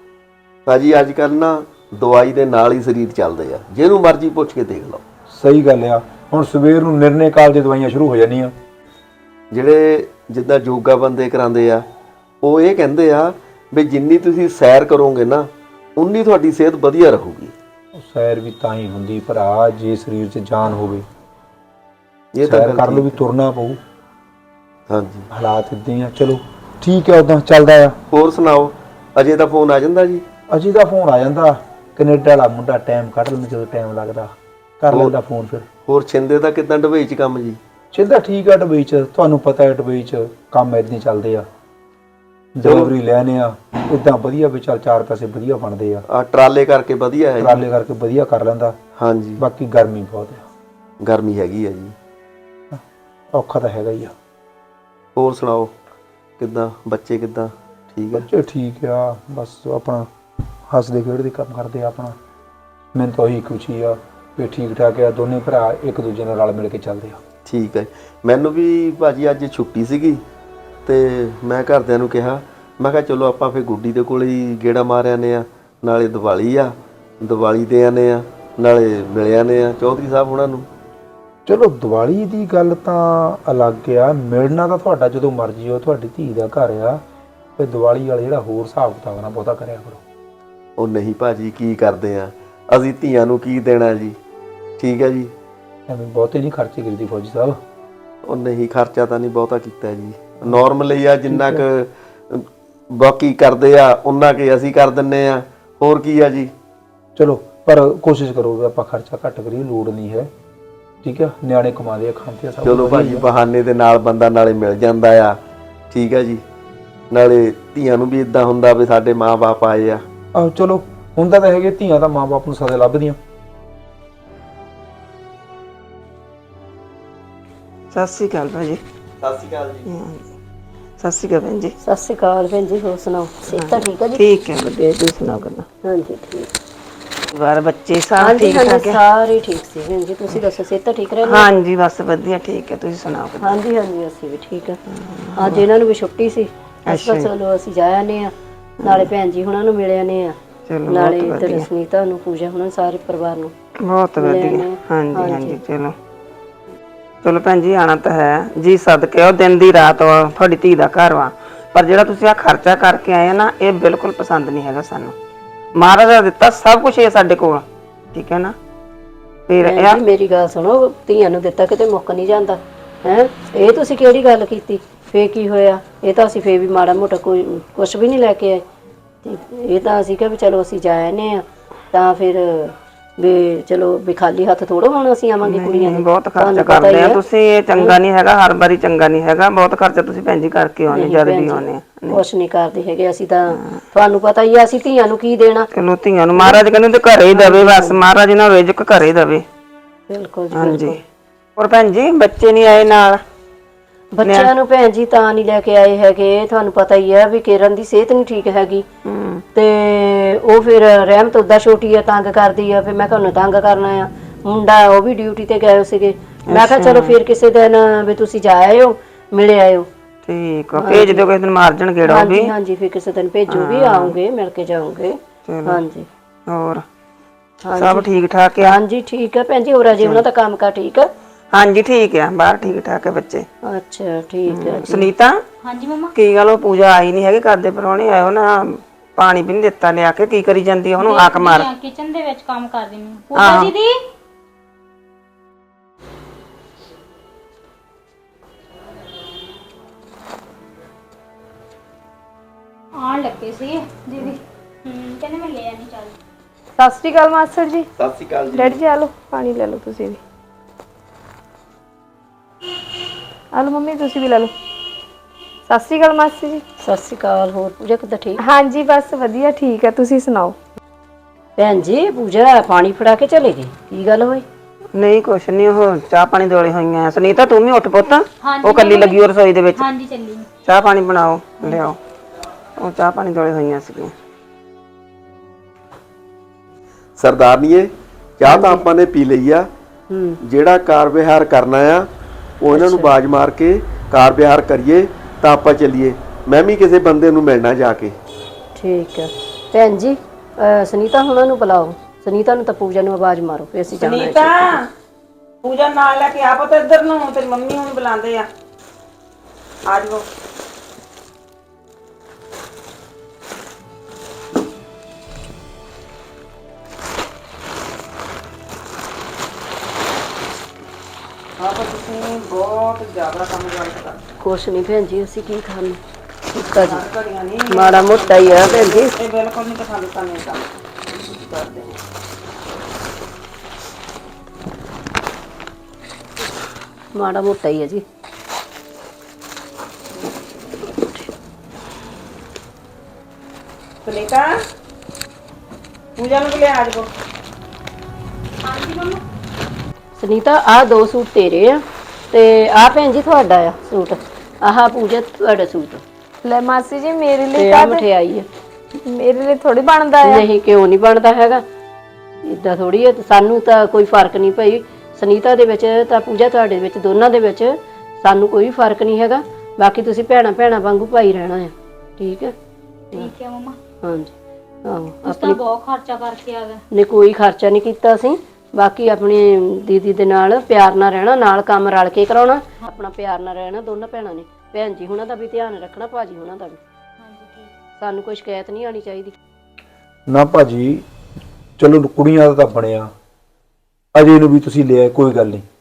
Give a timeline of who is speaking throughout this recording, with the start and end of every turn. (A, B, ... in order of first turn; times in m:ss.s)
0:00.7-0:05.0 A
0:05.3-0:08.5 B
0:09.5-0:11.8 A
0:12.4-0:17.5 A
0:17.9-0:21.0 B
0:22.3-0:23.2 A
0:22.4-0:23.8 B
0:24.9-0:25.3 A
0:25.3-0:28.0 B
0:28.1-0:30.2 A
0:30.5-0:35.6 B
0:35.8-0:37.6 A
0:37.9-0:41.4 B
0:42.5-0:46.0 B
0:42.6-0:42.9 A
0:46.1-0:47.6 A
0:47.4-0:48.8 B
0:49.0-0:49.4 A
0:49.4-0:50.4 B
0:51.0-0:51.9 A
0:53.3-0:54.1 B
0:55.2-0:55.7 A
0:56.4-0:58.3 A
0:58.1-1:00.1 B
1:00.7-1:02.1 B
1:02.9-1:07.2 B
1:07.4-1:10.2 A
1:10.8-1:20.7 A
1:21.4-1:27.0 B
1:27.6-1:30.0 B
1:30.8-1:34.2 A
1:34.8-1:35.3 A
1:35.9-1:37.6 B
1:38.2-1:46.5 A
1:41.3-1:41.6 B
1:47.2-1:50.3 B
1:51.0-1:53.3 B
1:52.6-1:55.4 A
1:55.9-1:56.4 A
1:57.1-2:00.0 A
2:00.3-2:03.2 B
2:07.9-2:08.8 C
2:09.2-2:09.9 A
2:09.9-2:10.2 C
2:11.0-2:11.7 C
2:11.8-2:14.2 D
2:13.5-2:15.6 C
2:15.8-2:16.5 D
2:17.3-2:19.0 C
2:18.2-2:21.5 D
2:21.2-2:23.6 C
2:23.4-2:24.8 D
2:24.9-2:25.6 C
2:25.4-2:28.3 D
2:26.9-2:27.3 C
2:28.8-2:29.1 C
2:28.8-2:30.4 D
2:30.7-2:31.7 C
2:30.9-2:33.5 D
2:33.8-2:36.0 C
2:34.2-2:35.6 D
2:37.2-2:45.1 C
2:45.8-2:48.5 C
2:49.5-2:50.0 C
2:49.6-2:58.6 D
2:59.2-3:07.2 D
3:05.4-3:12.2 C
3:10.9-3:15.7 D
3:15.7-3:19.4 C
3:16.4-3:16.6 D
3:17.3-3:18.0 D
3:20.1-3:21.0 D
3:20.5-3:21.0 C
3:21.6-3:23.2 C
3:24.1-3:28.8 D
3:24.2-3:24.5 C
3:29.0-3:29.4 C
3:29.5-3:39.9 D
3:36.5-3:37.2 C
3:40.2-3:42.5 C
3:40.7-3:41.2 D
3:42.0-3:46.1 D
3:43.5-3:44.2 C
3:45.4-3:45.8 C
3:46.5-3:46.8 C
3:47.6-3:48.1 D
3:47.8-3:48.8 C
3:48.6-3:51.1 D
3:50.0-3:50.2 C
3:51.5-3:53.4 C
3:53.6-3:55.1 D
3:54.5-3:55.3 C
3:55.6-3:56.1 E
3:56.1-4:01.7 C
4:01.0-4:04.0 E
4:03.3-4:03.7 C
4:12.9-4:16.1 E
4:16.8-4:17.9 F
4:18.0-4:18.8 A
4:18.5-4:20.2 F
4:23.5-4:24.5 F
4:25.7-4:26.6 F
4:26.8-4:28.4 D
4:28.4-4:30.6 F
4:31.6-4:34.4 D
4:34.9-4:39.8 C
4:38.4-4:40.4 E
4:40.6-4:42.0 C
4:42.8-4:44.1 C
4:47.2-4:49.7 A
4:48.4-4:48.8 D
4:50.1-4:50.4 D
4:50.4-4:52.1 A
4:52.6-4:58.2 A
4:52.7-4:53.1 D
4:58.8-5:04.8 D
5:03.9-5:04.9 C
5:05.6-5:08.5 C
5:09.9-5:10.2 C
5:21.6-5:24.2 C
5:24.4-5:26.0 D
5:26.5-5:27.0 D
5:26.8-5:32.0 C
5:27.7-5:29.2 D
5:37.1-5:38.0 D
5:40.8-5:41.3 D
5:44.0-5:44.5 C
5:46.2-5:47.1 C
5:48.6-5:49.2 E
5:50.2-5:56.0 D
5:56.4-5:58.0 F
5:57.5-5:58.5 D
5:59.1-6:00.5 F
6:00.2-6:01.6 D
6:02.4-6:12.5 D
6:13.1-6:13.8 E
6:14.0-6:14.3 D
6:14.8-6:15.6 D
6:15.2-6:16.8 E
6:16.9-6:26.8 D
6:27.2-6:27.7 E
6:28.0-6:29.4 D
6:30.3-6:31.0 B
6:31.8-6:33.1 B
6:34.1-6:35.6 B